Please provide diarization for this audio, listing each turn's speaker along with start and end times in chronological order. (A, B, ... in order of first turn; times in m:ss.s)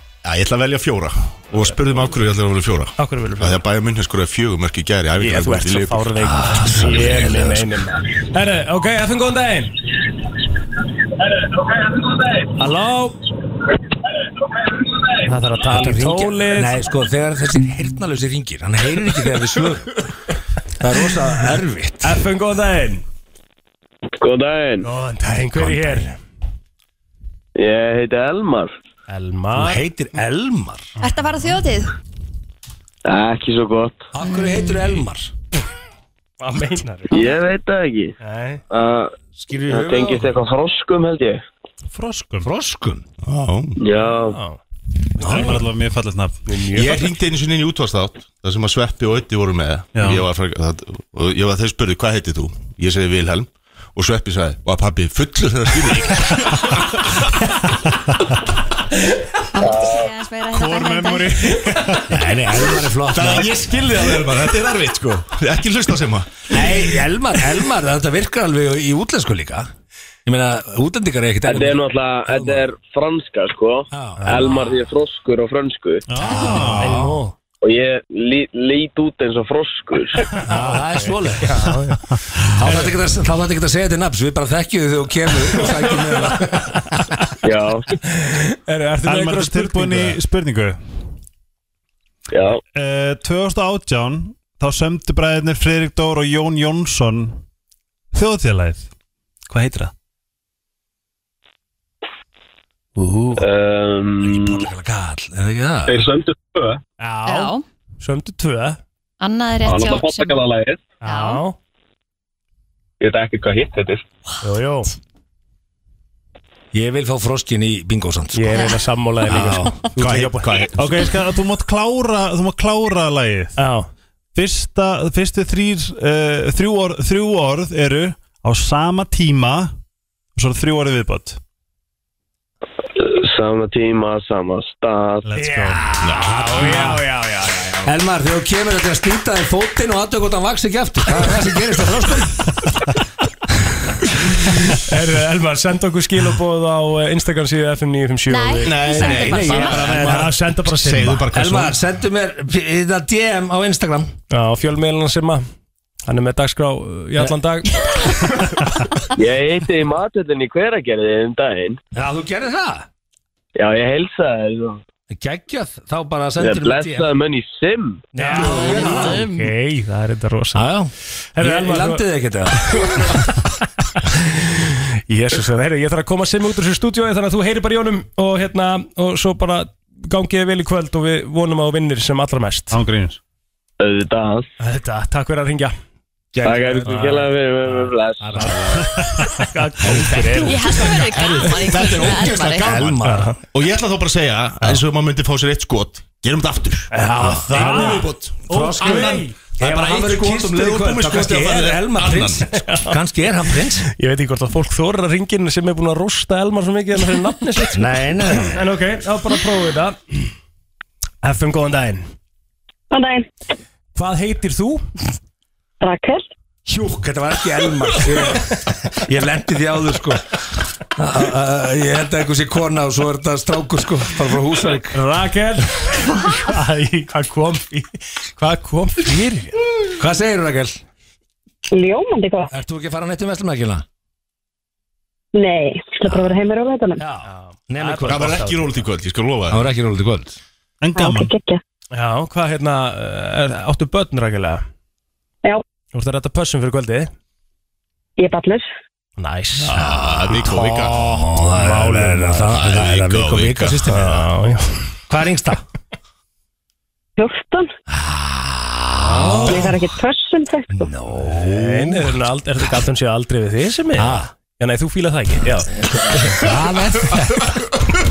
0:00.2-0:06.1 A
0:03.0-0:03.6 B
0:05.2-0:09.8 B
0:06.2-0:07.7 C
0:12.6-0:13.2 B
0:15.2-0:16.8 B
0:15.7-0:19.9 C
0:20.8-0:22.2 C
0:22.0-0:23.0 B
0:24.2-0:24.8 D
0:24.8-0:26.2 B
0:25.5-0:26.1 C
0:27.6-0:28.7 D
0:29.1-0:29.8 B
0:29.5-0:30.9 C
0:31.0-0:31.9 E
0:33.0-0:34.0 D
0:34.1-0:35.3 C
0:36.4-0:37.3 B
0:37.1-0:38.2 D
0:38.2-0:38.6 B
0:38.7-0:39.2 D
0:39.4-0:40.3 C
0:39.7-0:41.4 D
0:42.4-0:43.0 C
0:43.2-0:43.8 A
0:43.8-0:44.4 D
0:44.1-0:44.6 B
0:45.2-0:46.4 F
0:45.2-0:45.6 C
0:46.5-0:47.1 B
0:46.7-0:56.9 A
0:49.9-0:50.2 F
0:59.5-1:01.6 E
0:59.6-1:00.0 G
1:00.6-1:01.3 A
1:00.9-1:02.2 F
1:02.1-1:03.6 C
1:03.0-1:06.9 A
1:06.5-1:09.7 C
1:10.2-1:12.6 C
1:11.4-1:16.0 D
1:13.9-1:14.7 C
1:14.2-1:14.7 B
1:16.1-1:17.1 F
1:16.2-1:17.1 C
1:16.4-1:17.3 B
1:17.6-1:20.2 D
1:20.4-1:21.5 C
1:20.5-1:22.0 B
1:22.1-1:22.8 F
1:22.5-1:27.0 C
1:22.6-1:22.9 B
1:25.5-1:26.5 B
1:27.4-1:27.9 D
1:28.0-1:30.2 B
1:29.0-1:30.8 F
1:32.3-1:32.6 D
1:32.7-1:37.4 F
1:38.1-1:38.9 F
1:39.5-1:39.9 F
1:43.0-1:43.4 B
1:43.4-1:44.7 D
1:44.2-1:46.0 C
1:45.9-1:46.8 G
1:47.0-1:48.8 B
1:47.2-1:47.6 E
1:49.2-1:50.4 E
1:49.6-1:50.8 G
1:51.0-1:51.6 B
1:51.0-1:51.4 E
1:53.0-1:54.0 G
1:54.4-1:54.9 B
1:56.7-1:58.6 C
1:58.3-2:00.7 B
1:58.5-1:58.8 E
1:59.2-1:59.9 C
1:59.9-2:00.8 A
2:00.7-2:03.6 F
2:03.6-2:03.9 B
2:04.3-2:09.7 F
2:10.4-2:11.4 F
2:13.0-2:15.3 D
2:15.2-2:15.8 F
2:15.3-2:18.0 B
2:16.0-2:16.6 A
2:16.0-2:17.0 C
2:17.8-2:22.4 C
2:24.5-2:31.3 B
2:28.3-2:29.8 E
2:28.6-2:31.8 A
2:28.9-2:30.4 C
2:29.8-2:30.2 F
2:31.3-2:34.1 C
2:34.3-2:35.4 B
2:36.0-2:38.5 B
2:39.1-2:41.8 D
2:41.9-2:42.9 C
2:43.6-2:44.8 D
2:45.1-2:47.1 C
2:46.4-2:48.0 D
2:48.1-2:49.2 C
2:48.1-2:50.7 B
2:48.4-2:49.4 E
2:50.5-2:53.2 C
2:51.3-2:53.3 B
2:54.0-3:02.8 B
3:02.7-3:03.2 F
3:03.8-3:04.5 D
3:04.6-3:05.7 B
3:06.3-3:07.3 B
3:06.4-3:08.5 D
3:06.4-3:07.0 C
3:08.2-3:10.8 B
3:08.8-3:09.2 F
3:09.8-3:22.5 A
3:10.0-3:10.4 C
3:10.4-3:12.8 E
3:12.0-3:13.4 C
3:13.0-3:13.4 B
3:16.9-3:19.4 B
3:17.2-3:23.8 C
3:17.6-3:18.0 F
3:22.5-3:23.0 B
3:23.6-3:30.2 B
3:27.7-3:28.6 C
3:31.2-3:32.0 B
3:32.9-3:33.3 H
3:33.9-3:34.8 B
3:35.8-3:36.2 H
3:36.7-3:40.3 C
3:41.0-3:45.0 C
3:44.9-3:49.6 B
3:50.0-3:50.8 C
3:51.7-3:52.5 H
3:52.5-3:53.8 C
3:55.3-3:57.0 H
3:57.0-3:58.4 C
3:57.2-3:58.9 B
3:58.0-3:59.7 A
3:59.5-4:00.4 C
4:00.8-4:01.3 F
4:00.9-4:01.6 H
4:01.9-4:04.6 B
4:05.9-4:07.1 B
4:08.2-4:08.7 H
4:09.2-4:10.6 B
4:09.7-4:11.2 A
4:09.7-4:14.2 C
4:11.6-4:12.6 B
4:12.4-4:14.1 A
4:13.8-4:14.8 B
4:15.1-4:15.6 C
4:17.2-4:17.7 H
4:17.9-4:19.7 C
4:18.9-4:19.7 B
4:19.4-4:20.9 H
4:20.7-4:22.1 C
4:21.2-4:27.3 B
4:23.9-4:24.3 C
4:26.1-4:27.5 C